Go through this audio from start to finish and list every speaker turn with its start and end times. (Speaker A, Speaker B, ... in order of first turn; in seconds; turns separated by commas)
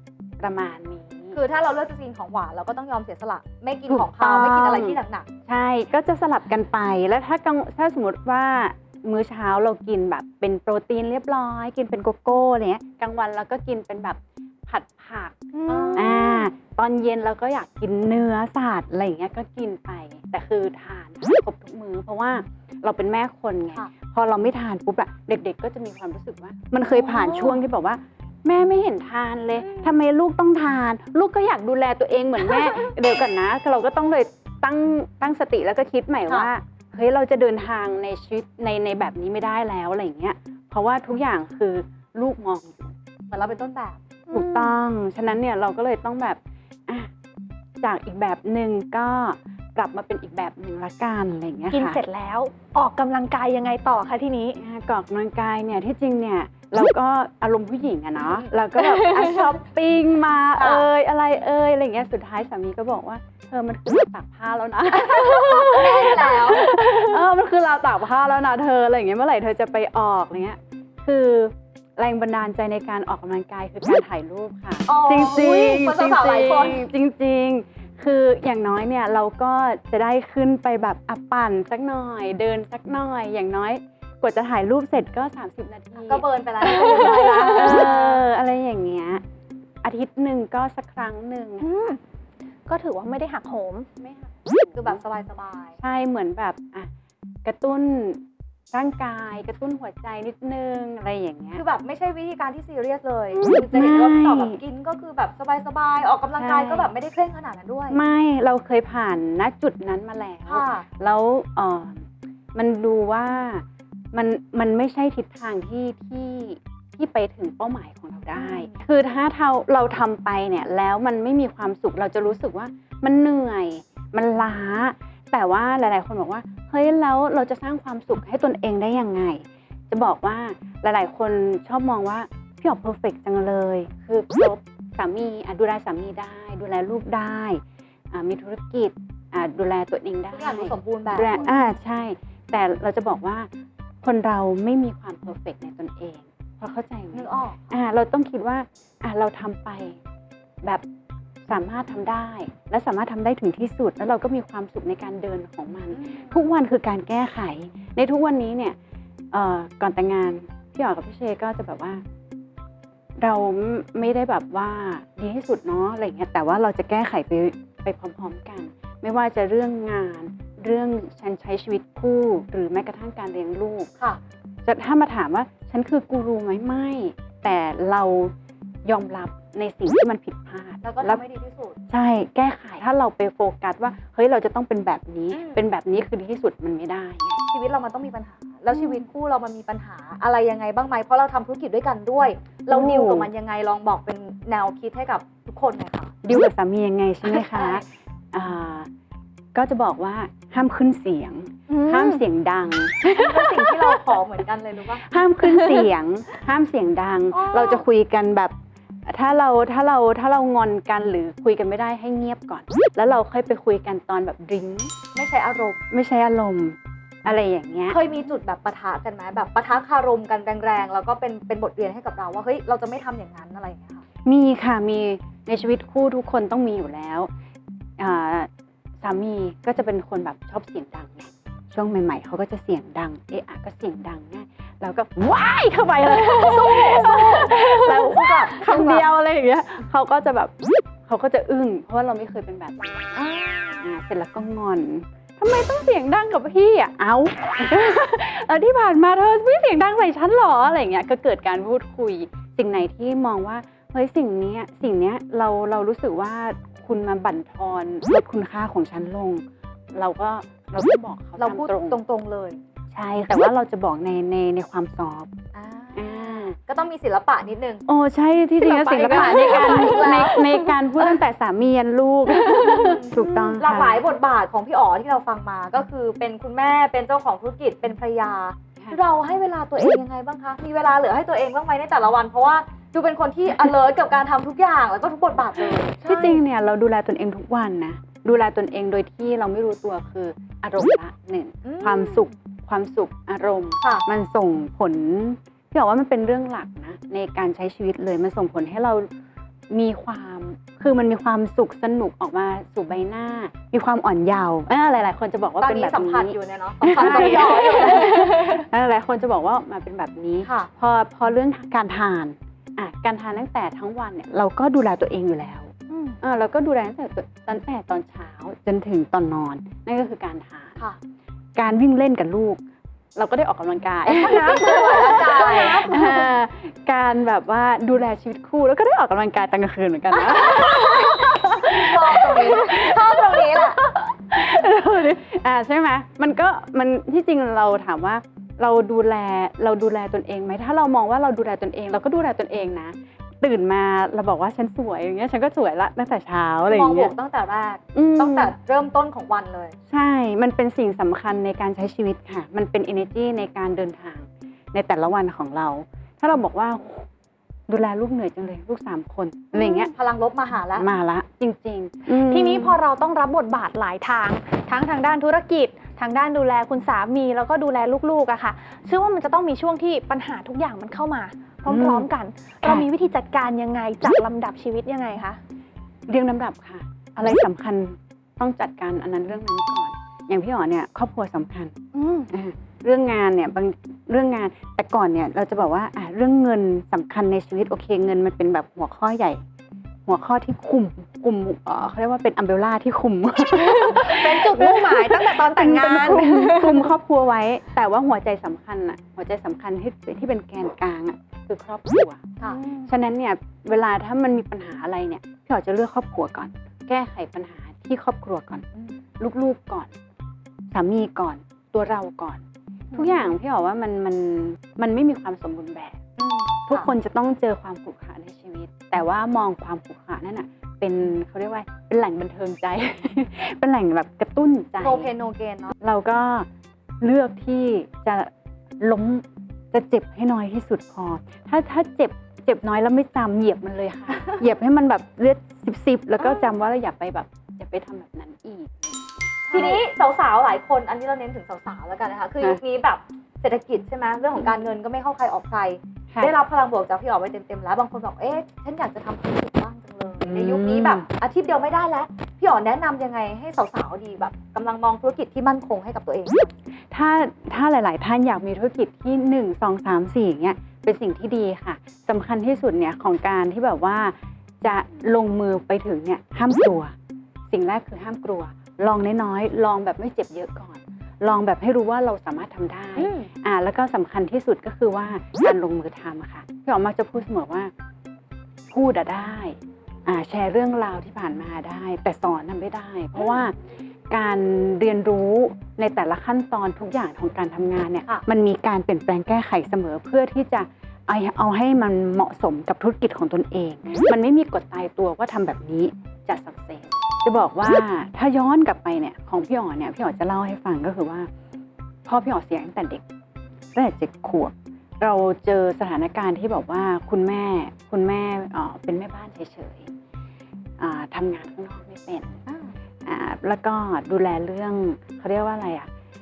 Speaker A: 0.4-1.4, Speaker B: 1.3-5.3, Speaker A: 3.9-43.0, Speaker C: 15.5-16.5, Speaker B: 15.7-16.2, Speaker B: 26.9-27.6, Speaker B: 29.6-29.9, Speaker B: 36.3-36.5, Speaker B: 43.3-44.0, Speaker C: 44.3-44.7, Speaker A: 44.3-47.1, Speaker A: 47.8-52.0, Speaker C: 51.7-54.6, Speaker A: 54.6-89.2, Speaker B: 58.2-58.5, Speaker C: 58.8-59.5, Speaker B: 60.6-60.9, Speaker B: 65.5-66.7, Speaker B: 74.9-76.9, Speaker B: 86.1-88.2, Speaker C: 87.0-87.8, Speaker A: 89.8-91.8, Speaker C: 91.6-92.0, Speaker C: 92.7-93.9, Speaker A: 94.0-95.0, Speaker B: 94.8-95.8, Speaker A: 95.8-96.9, Speaker A: 97.4-98.2, Speaker A: 98.7-101.6, Speaker B: 101.5-108.0, Speaker A: 103.3-104.6, Speaker A: 106.3-106.9, Speaker A: 107.9-143.5, Speaker B: 110.5-110.9, Speaker B: 118.3-118.8, Speaker B: 140.3-141.6, Speaker A: 144.0-150.0, Speaker B: 147.1-147.6, Speaker A: 151.5-158.8, Speaker B: 155.9-156.4, Speaker A: 159.3-162.0, Speaker A: 163.2-173.9, Speaker A: 174.7-178.3, Speaker A: 178.8-181.2, Speaker B: 180.8-181.8, Speaker A: 181.9-187.4, Speaker B: 185.3-185.6, Speaker B: 187.5-196.1, Speaker A: 192.7-193.3, Speaker A: 196.2-198.9, Speaker B: 197.3-197.8, Speaker A: 199.5-204.2, Speaker C: 201.7-202.2, Speaker B: 203.1-205.0, Speaker A: 205.0-208.5, Speaker B: 207.3-207.8, Speaker A: 209.1-214.9, Speaker B: 215.2-215.8, Speaker A: 215.9-218.0, Speaker B: 217.9-224.0, Speaker A: 224.2-227.3, Speaker A: 228.0-228.5, Speaker A: 229.0-240.5, Speaker B: 236.4-239.1, Speaker A: 241.0-242.8, Speaker B: 243.2-243.8, Speaker A: 243.8-262.0, Speaker B: 261.4-262.6, Speaker A: 262.9-265.3, Speaker B: 265.5-267.8, Speaker A: 265.9-266.6, Speaker A: 267.9-274.0, Speaker C: 268.6-270.8, Speaker B: 269.0-270.6, Speaker C: 272.3-273.3, Speaker B: 272.5-286.4, Speaker A: 285.9-299.1, Speaker B: 291.6-292.3, Speaker A: 299.7-320.8, Speaker B: 305.6-308.6, Speaker C: 307.0-308.5, Speaker B: 310.4-310.7, Speaker C: 315.9-316.2, Speaker A: 321.6-322.6, Speaker A: 323.2-347.1, Speaker B: 324.1-325.9, Speaker C: 325.4-326.3, Speaker B: 331.7-333.8, Speaker B: 346.7-349.8, Speaker A: 347.9-348.5, Speaker A: 349.9-357.1, Speaker A: 357.7-359.9, Speaker B: 359.6-360.9, Speaker C: 359.6-359.9, Speaker A: 360.8-362.8, Speaker C: 362.1-375.4, Speaker A: 371.6-372.1, Speaker A: 376.1-381.8, Speaker C: 381.9-382.3, Speaker A: 382.3-389.4, Speaker A: 390.1-402.3, Speaker C: 393.6-396.9, Speaker C: 402.4-402.9, Speaker A: 402.9-408.7, Speaker A: 409.2-409.9, Speaker A: 410.7-412.4, Speaker A: 412.9-416.0, Speaker B: 416.2-416.9, Speaker A: 416.7-425.1, Speaker B: 424.8-425.8, Speaker A: 425.8-426.5, Speaker A: 427.0-439.8, Speaker B: 436.2-436.5, Speaker B: 439.5-456.6, Speaker A: 450.2-451.1, Speaker A: 456.9-466.9, Speaker A: 467.5-477.7, Speaker B: 473.0-473.3, Speaker A: 478.7-483.6, Speaker A: 484.1-501.3, Speaker A: 502.1-503.0, Speaker A: 503.8-509.9, Speaker A: 510.8-512.4, Speaker B: 512.5-512.8, Speaker A: 513.0-515.9